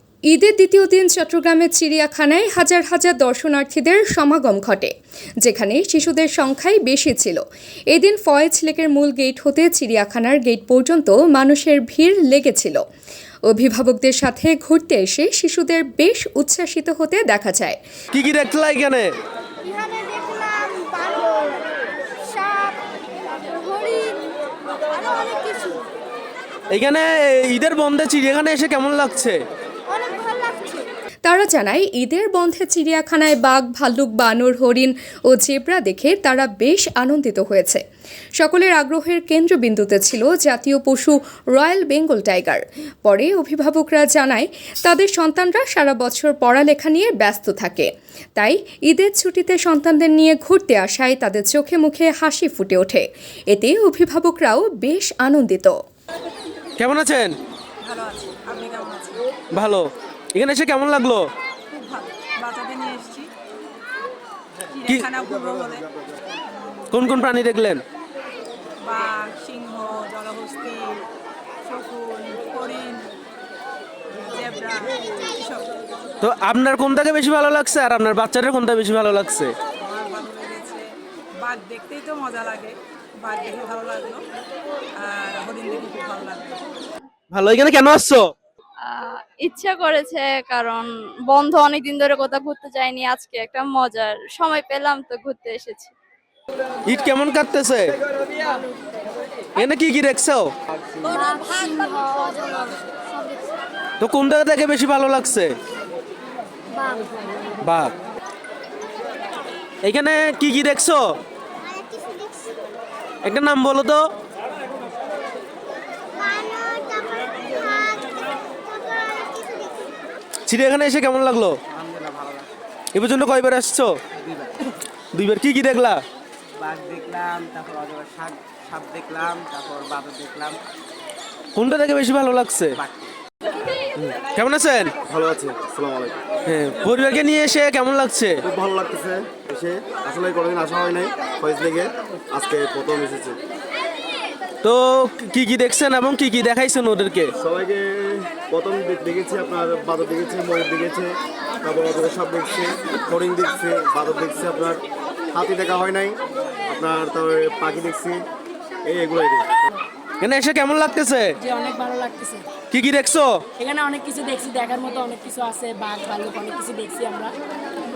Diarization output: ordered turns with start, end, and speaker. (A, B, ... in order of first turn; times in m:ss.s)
0:00.3-0:12.8 A
0:13.5-0:17.8 A
0:18.1-0:19.1 B
0:19.6-0:22.9 C
0:23.4-0:24.3 C
0:24.9-0:25.9 C
0:26.7-0:29.4 B
0:29.9-0:30.9 C
0:31.2-0:37.8 A
0:38.4-0:55.8 A
0:56.8-0:57.3 B
0:57.8-0:59.2 D
0:59.5-1:01.3 B
1:01.7-1:03.3 D
1:04.7-1:05.9 D
1:06.9-1:07.8 B
1:08.8-1:11.0 D
1:11.6-1:13.2 D
1:14.2-1:15.7 D
1:16.2-1:19.5 B
1:19.8-1:20.9 D
1:21.4-1:24.2 D
1:25.0-1:26.6 D
1:27.3-1:28.3 B
1:28.8-1:36.0 E
1:36.9-1:37.9 B
1:39.6-1:40.5 B
1:41.0-1:43.4 C
1:42.0-1:42.8 E
1:44.0-1:45.6 B
1:46.8-1:47.2 C
1:47.6-1:47.9 B
1:49.8-1:51.0 B
1:51.8-1:52.5 C
1:53.2-1:54.0 B
1:56.2-1:59.8 C
2:00.5-2:01.6 B
2:01.7-2:02.5 F
2:02.9-2:04.0 B
2:04.2-2:04.6 F
2:05.1-2:06.0 B
2:06.6-2:10.6 F
2:11.6-2:12.7 B
2:14.0-2:14.9 B
2:15.1-2:16.2 G
2:16.5-2:18.4 B
2:18.5-2:23.4 G
2:24.6-2:27.3 B
2:27.4-2:31.1 G
2:31.6-2:34.8 G
2:35.3-2:36.2 G
2:36.7-2:38.2 G
2:38.9-2:39.5 G
2:40.2-2:41.3 B
2:41.4-2:42.5 H
2:42.7-2:43.3 B
2:43.6-2:47.3 H